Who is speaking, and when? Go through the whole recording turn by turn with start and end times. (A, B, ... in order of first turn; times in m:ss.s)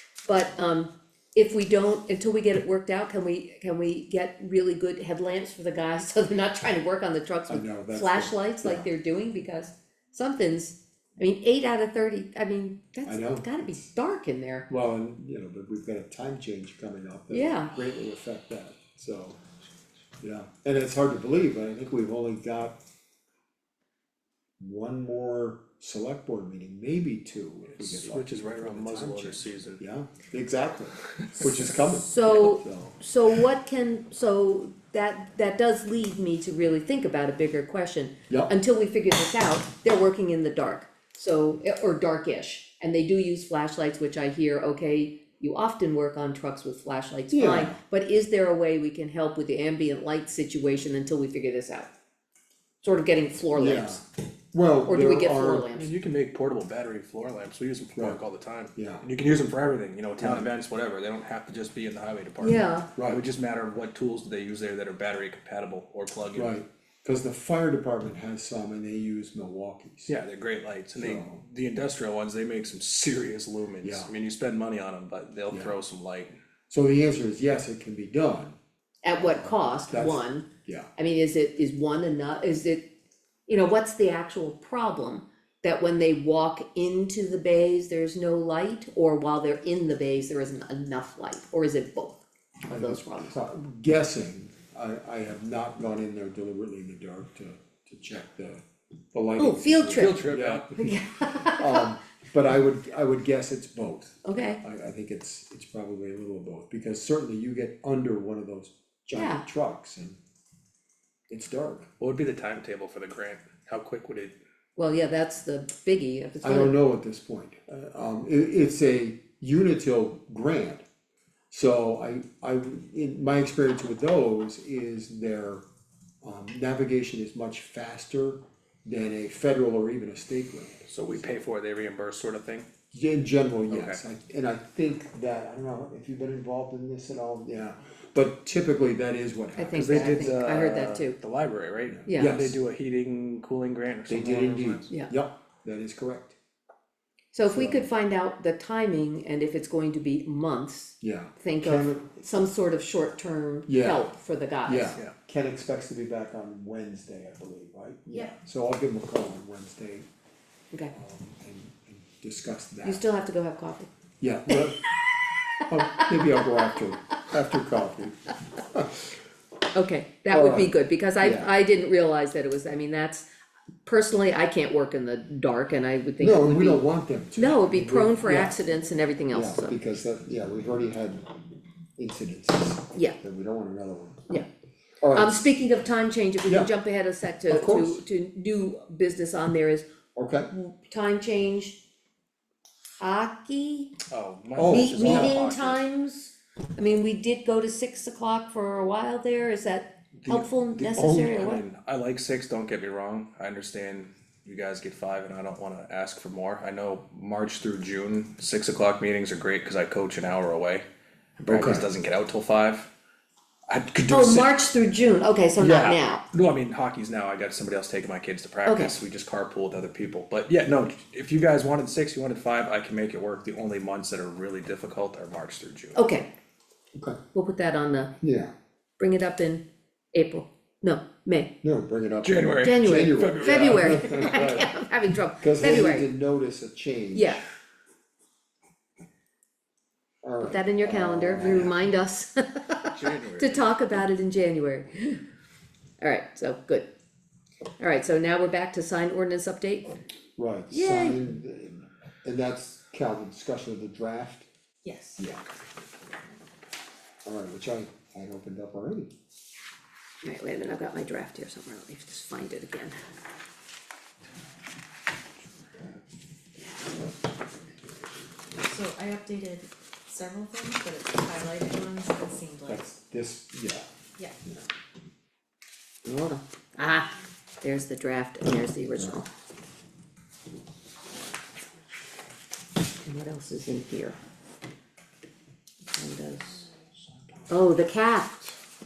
0:00.2-0:14.7 A
0:07.5-0:08.9 B
0:13.0-0:13.9 B
0:14.7-0:19.4 B
0:17.3-0:17.7 A
0:20.2-0:22.8 B
0:24.6-0:33.0 B
0:27.8-0:29.8 C
0:31.2-0:31.6 C
0:31.9-0:51.9 A
0:38.3-0:38.6 B
0:47.3-0:47.8 B
0:52.8-0:54.0 A
0:53.5-0:55.7 B
0:54.9-0:55.9 A
0:55.7-1:06.6 C
0:58.0-0:58.2 B
0:58.7-0:59.0 B
1:00.2-1:00.5 B
1:02.4-1:02.9 A
1:03.0-1:03.2 B
1:06.3-1:10.1 B
1:10.1-1:16.3 C
1:11.0-1:11.4 B
1:13.8-1:14.1 B
1:16.7-1:18.6 B
1:19.0-1:22.9 A
1:19.2-1:20.9 B
1:23.5-1:33.3 A
1:32.7-1:50.2 B
1:39.4-1:40.2 A
1:40.0-1:40.8 C
1:40.8-1:41.9 A
1:44.2-1:44.6 A
1:49.1-1:49.4 A
1:51.3-1:51.9 B
1:52.0-1:54.4 C
1:54.8-1:56.8 A
1:56.4-2:00.8 B
2:01.5-2:05.6 B
2:06.2-2:10.9 B
2:10.9-2:12.7 C
2:12.9-2:20.3 B
2:13.7-2:14.0 C
2:19.6-2:21.2 A
2:19.7-2:24.9 C
2:21.9-2:22.6 B
2:22.1-2:22.4 A
2:24.1-2:26.4 B
2:27.3-2:35.0 A
2:27.4-2:27.9 B
2:31.0-2:32.2 B
2:33.7-2:34.1 B
2:34.6-2:40.1 B
2:40.9-2:43.0 B
2:42.8-2:43.9 A
2:44.2-2:44.9 B
2:45.6-2:49.0 B
2:46.1-2:46.4 A
2:49.7-2:53.2 A
2:50.3-2:51.5 B
2:53.9-2:56.8 A
2:56.2-2:58.6 B
2:57.4-2:59.8 A
2:59.3-3:01.4 B
3:02.0-3:04.4 B
3:05.0-3:05.5 B
3:05.1-3:09.9 A
3:06.5-3:06.7 B
3:07.4-3:08.0 B
3:10.1-3:10.5 B
3:10.5-3:11.8 A
3:13.0-3:13.9 A
3:14.1-3:15.8 C
3:14.6-3:15.5 B
3:14.6-3:21.6 A
3:20.2-3:30.8 C
3:31.4-3:32.9 C
3:31.4-3:31.9 B
3:33.7-3:34.6 C
3:34.1-3:36.2 A
3:35.6-3:36.0 B
3:35.6-3:46.0 C
3:38.7-3:39.0 A
3:46.0-3:46.3 A
3:47.0-3:47.2 B
3:47.3-3:48.1 A
3:48.2-3:48.5 B
3:49.0-3:51.6 A
3:51.6-3:54.8 B
3:52.2-3:54.4 C
3:52.6-3:56.1 A
3:55.4-3:57.4 B
3:57.1-3:57.4 A
4:00.2-4:01.8 B
4:00.4-4:05.2 A
4:02.8-4:03.8 C
4:06.0-4:06.9 A
4:07.8-4:09.9 A
4:10.4-4:14.5 B
4:10.7-4:11.2 A
4:14.8-4:15.2 D
4:15.2-4:15.5 B
4:17.2-4:19.1 B
4:20.2-4:23.0 A
4:28.6-4:32.8 D
4:32.6-4:33.9 B
4:36.0-4:39.3 A
4:43.0-4:44.2 A
4:45.9-4:46.7 A
4:47.5-4:48.5 A